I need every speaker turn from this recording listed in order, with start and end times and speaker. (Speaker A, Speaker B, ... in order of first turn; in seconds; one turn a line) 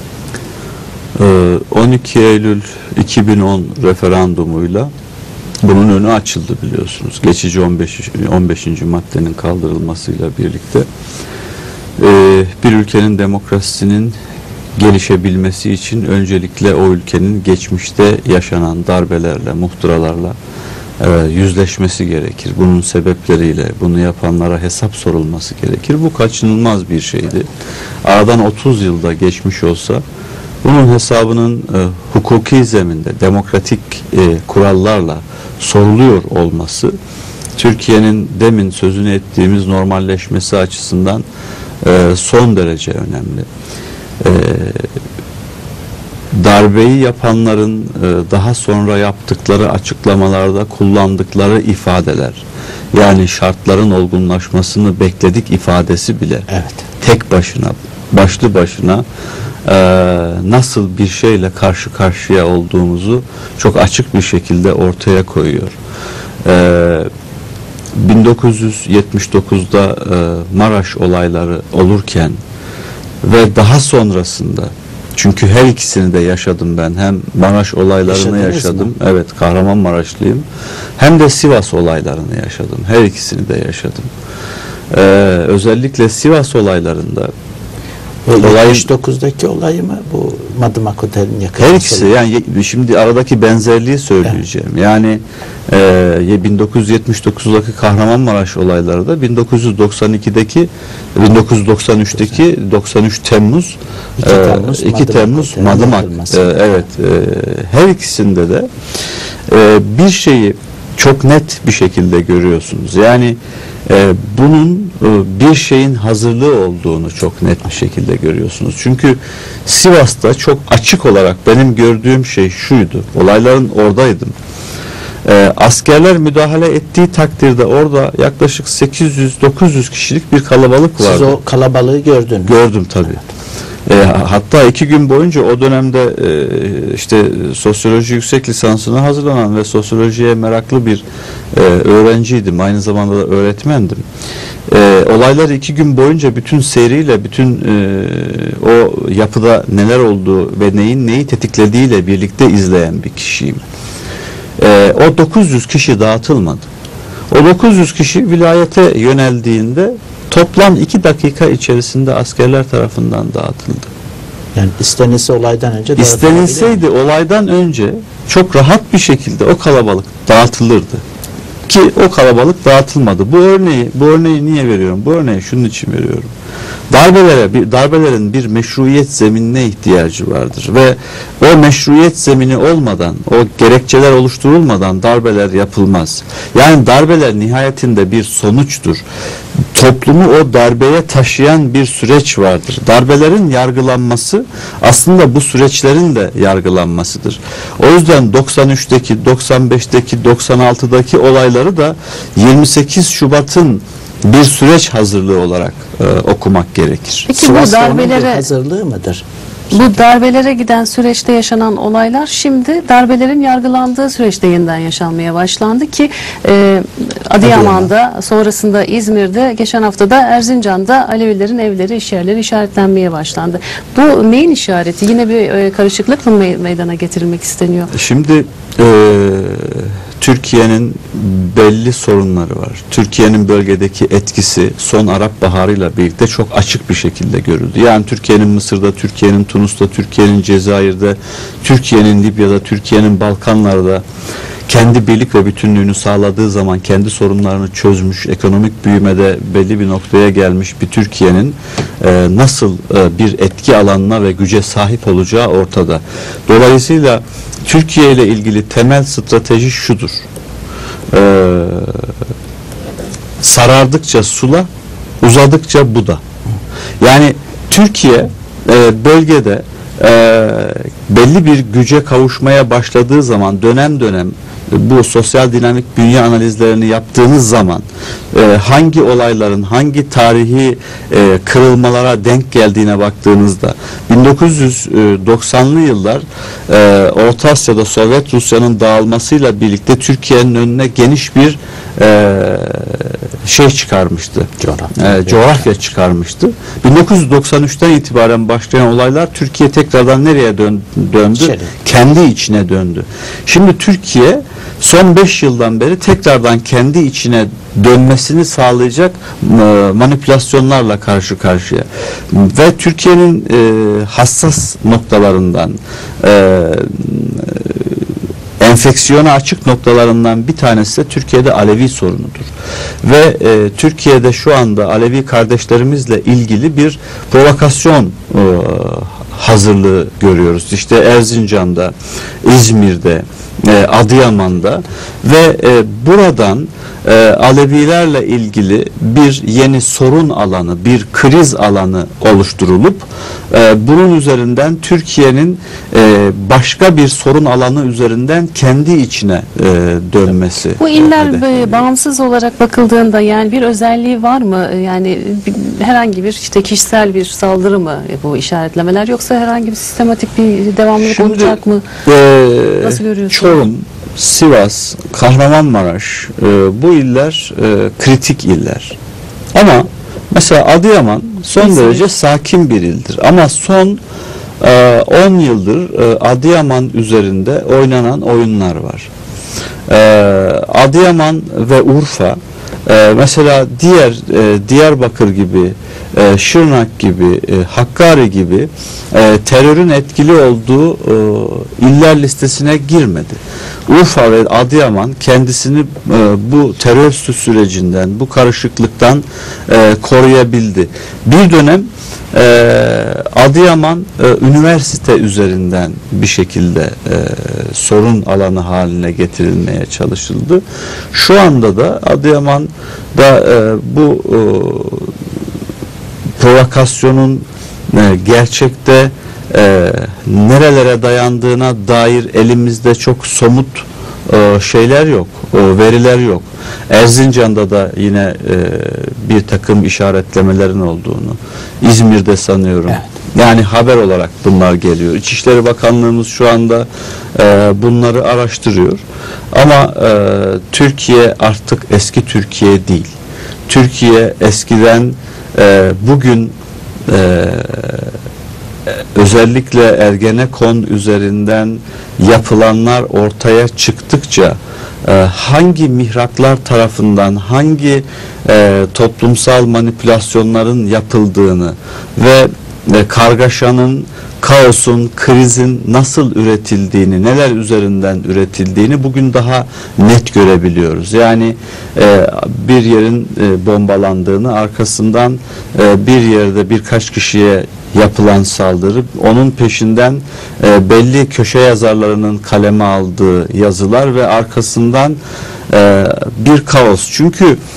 Speaker A: 1.1-4.9
Speaker A: 5.6-10.9
Speaker A: 12.0-14.2
Speaker A: 14.8-20.4
Speaker A: 21.0-27.5
Speaker A: 28.0-30.0
Speaker A: 30.6-36.9
Speaker A: 37.6-41.2
Speaker A: 41.8-43.5
Speaker A: 44.2-44.9
Speaker A: 46.3-52.4
Speaker A: 52.9-56.5
Speaker B: 56.5-56.8
Speaker A: 57.0-59.0
Speaker A: 59.6-65.8
Speaker A: 66.4-67.1
Speaker A: 67.9-72.4
Speaker A: 73.2-80.5
Speaker B: 78.0-78.9
Speaker A: 81.0-84.1
Speaker A: 84.9-87.3
Speaker B: 88.2-92.1
Speaker A: 88.4-88.9
Speaker A: 91.6-108.7
Speaker B: 104.2-106.8
Speaker A: 109.5-124.3
Speaker A: 125.2-131.4
Speaker B: 131.0-132.6
Speaker A: 132.4-133.2
Speaker A: 133.9-144.0
Speaker A: 144.7-153.6
Speaker A: 154.6-156.7
Speaker A: 157.3-163.9
Speaker B: 164.5-166.8
Speaker A: 166.0-171.0
Speaker A: 171.7-176.3
Speaker A: 176.9-189.0
Speaker A: 189.7-207.3
Speaker C: 207.3-208.4
Speaker B: 207.3-209.9
Speaker C: 209.7-227.9
Speaker B: 217.4-217.9
Speaker A: 227.9-244.0
Speaker A: 244.7-260.2
Speaker A: 261.1-262.1
Speaker A: 263.4-264.7
Speaker A: 265.2-266.2
Speaker A: 267.0-318.0
Speaker B: 294.6-295.6
Speaker B: 301.4-301.7
Speaker A: 318.6-322.5
Speaker A: 323.0-351.8
Speaker C: 350.8-361.8
Speaker A: 361.0-368.9
Speaker C: 362.8-363.6
Speaker A: 369.5-374.0
Speaker C: 371.6-372.1
Speaker A: 374.6-379.1
Speaker A: 379.9-415.1
Speaker A: 416.4-439.0
Speaker A: 439.5-443.1
Speaker A: 443.7-446.5
Speaker A: 447.1-448.1
Speaker A: 448.9-487.6